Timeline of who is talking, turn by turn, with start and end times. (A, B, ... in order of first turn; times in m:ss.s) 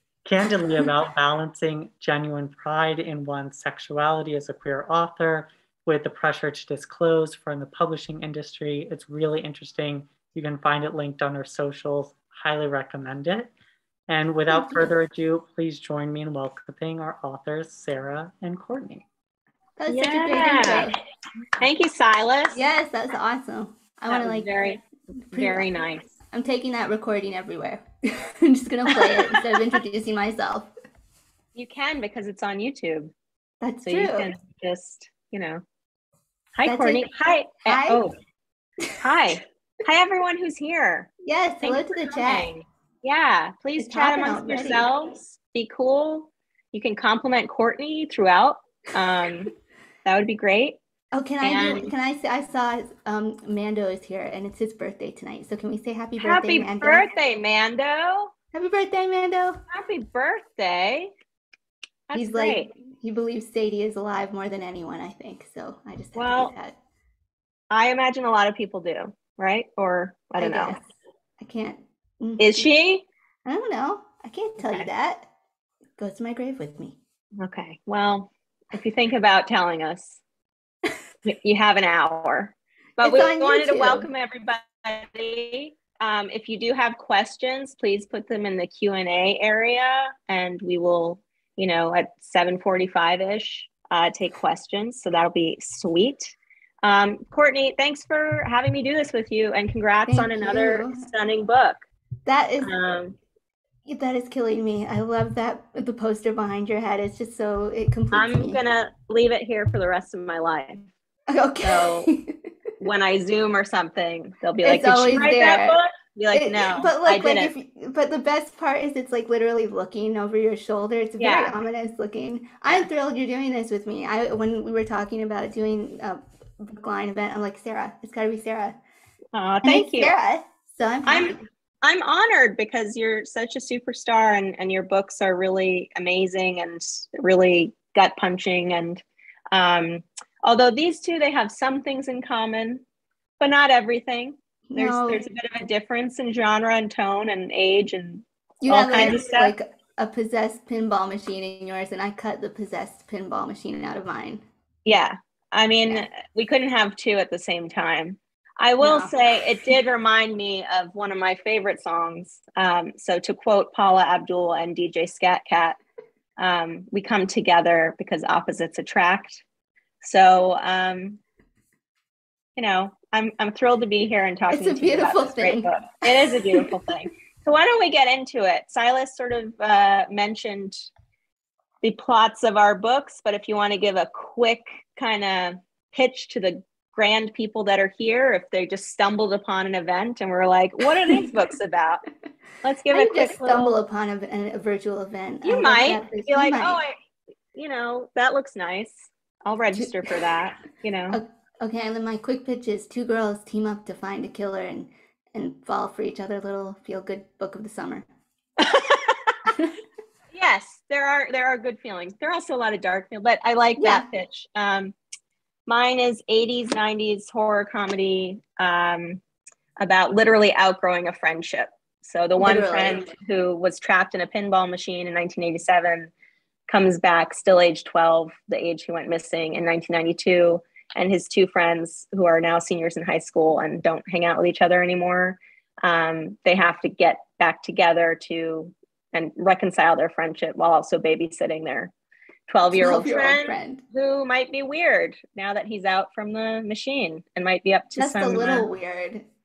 0:00.2-0:13.5 A
0:14.1-0:19.0 A
0:14.5-0:14.9 B
0:19.8-0:21.0 B
0:19.9-0:20.9 C
0:21.6-0:22.6 C
0:22.5-0:24.5 B
0:24.1-0:24.8 C
0:25.3-0:25.7 B
0:25.3-0:26.0 C
0:26.3-0:30.7 B
0:29.0-0:29.4 C
0:31.5-0:33.1 C
0:33.6-0:34.3 B
0:33.8-0:35.6 C
0:36.6-0:38.1 C
0:36.6-0:37.1 B
0:37.6-0:38.0 B
0:39.0-0:41.1 C
0:41.2-0:42.5 B
0:41.6-0:49.5 C
0:43.8-0:44.8 B
0:50.0-0:50.8 C
0:51.1-0:57.1 B
0:51.4-0:51.9 C
0:56.2-0:58.3 C
0:58.5-0:59.6 B
0:59.7-1:01.1 C
1:02.1-1:02.7 C
1:02.1-1:06.8 B
1:06.2-1:06.5 C
1:07.7-1:10.8 C
1:10.4-1:10.8 B
1:11.4-1:12.6 B
1:12.4-1:13.0 C
1:13.4-1:15.3 B
1:16.0-1:17.0 B
1:17.4-1:20.2 C
1:21.2-1:41.8 C
1:23.0-1:24.0 B
1:40.1-1:41.1 B
1:42.2-1:42.7 B
1:42.6-1:43.2 C
1:43.8-1:48.6 B
1:48.1-1:50.9 C
1:51.3-1:52.3 B
1:51.6-1:52.1 C
1:52.8-1:57.5 C
1:54.6-1:55.8 B
1:56.3-2:08.8 B
2:01.2-2:01.6 C
2:09.3-2:10.1 C
2:09.6-2:11.4 B
2:11.0-2:22.8 C
2:23.4-2:29.5 C
2:24.7-2:25.2 B
2:28.6-2:34.4 B
2:34.8-2:45.8 C
2:38.8-2:39.1 B
2:46.4-2:49.4 C
2:50.0-2:51.2 C
2:52.6-3:00.9 C
2:54.5-2:56.7 B
3:01.8-3:12.0 C
3:12.6-3:13.7 C
3:12.9-3:16.8 B
3:15.4-3:17.0 C
3:17.5-3:21.2 C
3:21.1-3:28.0 B
3:28.6-3:29.3 C
3:29.5-3:29.7 B
3:30.3-3:34.9 C
3:33.8-3:34.0 B
3:35.7-3:39.2 C
3:39.8-3:46.1 C
3:42.4-3:43.0 B
3:46.7-4:01.9 C
4:02.5-4:08.7 C
4:02.7-4:03.8 B
4:08.0-4:09.2 B